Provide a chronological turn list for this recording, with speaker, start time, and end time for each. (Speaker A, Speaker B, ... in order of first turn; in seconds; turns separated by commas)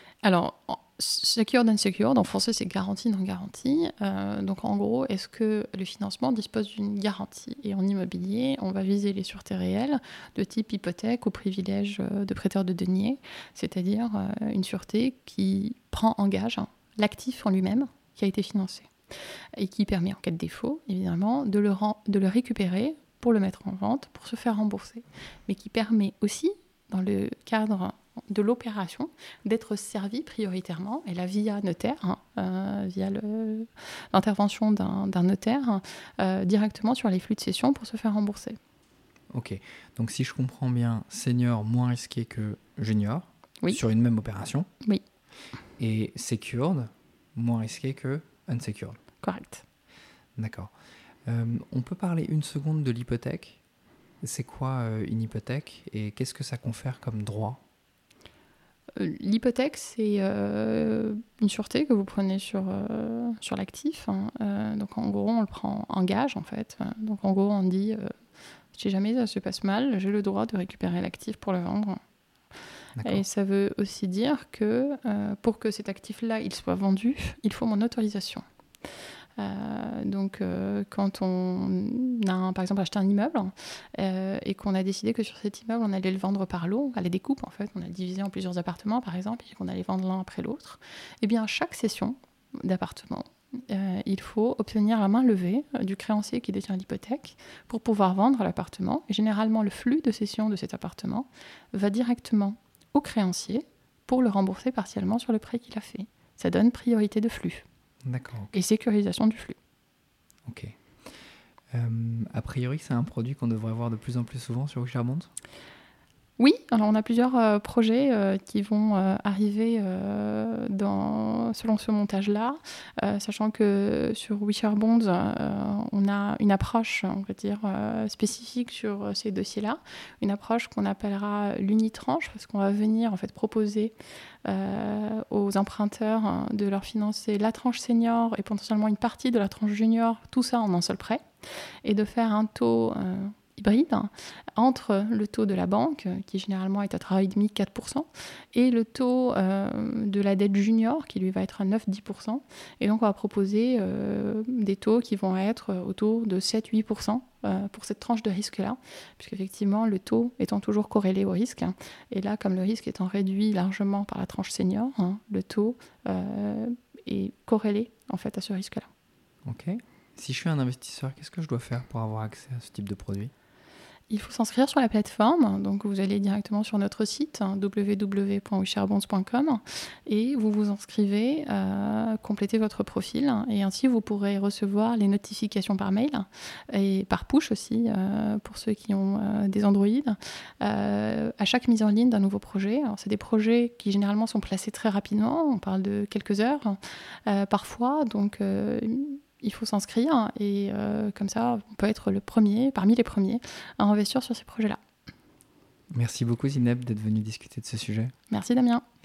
Speaker A: 0.2-18.9, Speaker A: 19.6-38.6, Speaker B: 39.3-44.7, Speaker B: 45.8-49.0, Speaker A: 49.2-49.6, Speaker B: 50.4-50.7, Speaker B: 51.3-53.6, Speaker B: 54.2-57.6, Speaker A: 59.0-68.1, Speaker A: 68.7-72.0, Speaker B: 73.0-73.2, Speaker A: 73.0-78.4, Speaker A: 79.4-107.6, Speaker B: 108.0-108.5, Speaker A: 108.5-109.6, Speaker B: 110.5-110.8, Speaker B: 111.7-115.3, Speaker A: 116.4-141.2, Speaker A: 141.8-168.9, Speaker B: 169.4-173.3, Speaker A: 174.1-204.8, Speaker B: 205.9-208.1, Speaker A: 208.3-208.8